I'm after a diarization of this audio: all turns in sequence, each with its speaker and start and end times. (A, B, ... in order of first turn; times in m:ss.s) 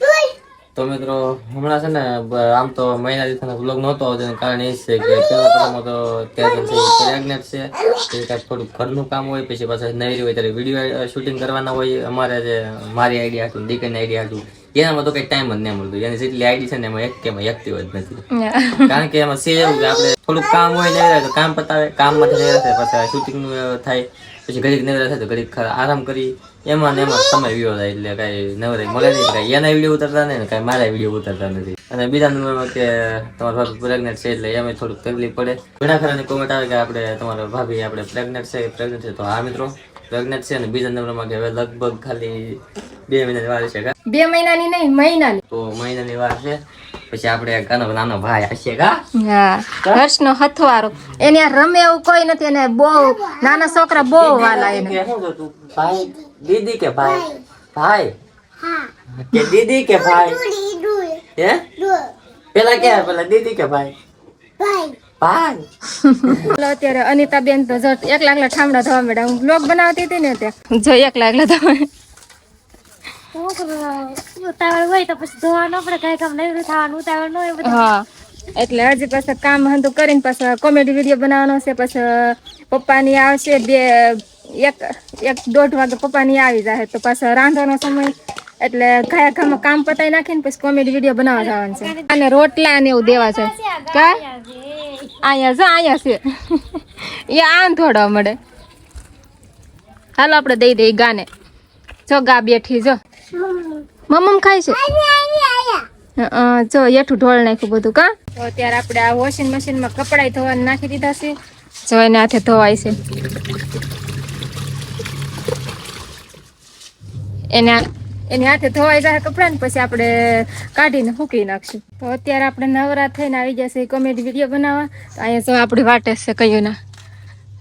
0:00.8-0:18.2 A
0:18.4-0:19.0 B
0:18.9-0:43.9 A
0:44.1-0:45.4 B
0:45.5-0:46.6 A
0:47.1-0:49.0 A
0:49.2-0:55.0 B
0:54.0-0:58.1 A
0:59.1-1:00.5 A
1:00.8-1:01.1 C
1:01.4-1:02.0 A
1:02.5-1:04.0 A
1:04.6-1:05.0 C
1:05.2-1:05.6 A
1:06.1-1:11.8 B
1:06.2-1:06.6 A
1:13.4-1:17.8 C
1:17.6-1:18.0 B
1:18.6-1:34.2 B
1:31.4-1:32.1 C
1:33.1-1:35.2 C
1:35.2-1:38.4 B
1:40.2-1:41.3 B
1:42.1-1:51.4 B
1:51.9-1:53.0 B
1:57.5-2:06.8 B